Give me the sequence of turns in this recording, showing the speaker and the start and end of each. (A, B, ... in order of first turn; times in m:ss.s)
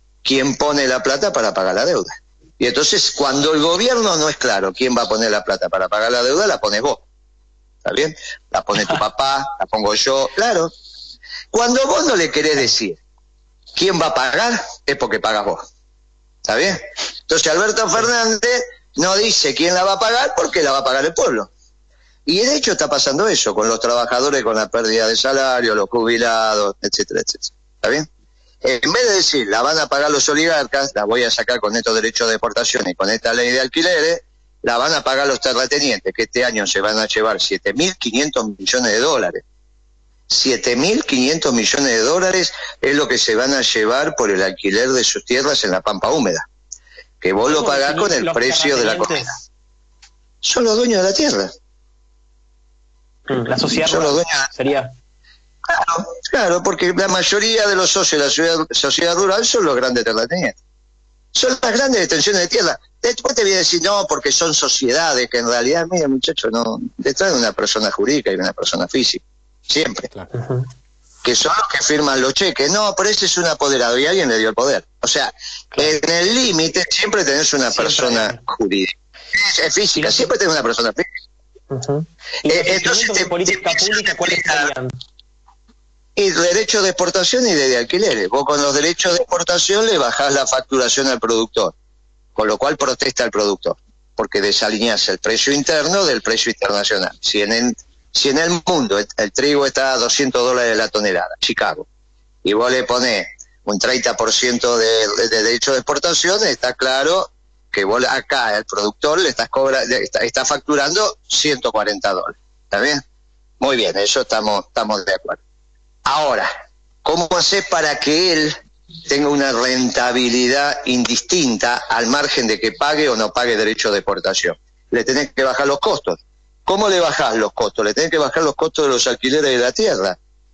0:00.2-0:07.0 A
0:07.8-0:10.7 A
0:11.5-0:13.0 A
0:13.8-0:15.6 A
0:16.4-0:21.5 A
0:22.3-0:28.1 A
0:28.6-0:39.4 A
0:40.3-0:46.4 A
0:47.2-0:49.3 A
0:47.5-0:49.4 B
0:50.4-0:51.5 A
0:53.3-0:54.9 B
0:53.8-0:54.5 A
0:55.7-1:00.6 A
1:01.4-1:10.1 A
1:10.3-1:10.7 B
1:11.2-1:21.0 A
1:17.8-1:18.4 B
1:20.0-1:20.3 B
1:21.7-1:24.9 B
1:22.5-1:24.7 A
1:26.2-1:31.7 A
1:32.4-1:41.9 A
1:42.4-1:53.0 A
1:53.6-1:55.4 A
1:56.1-1:56.5 A
1:57.0-2:10.2 A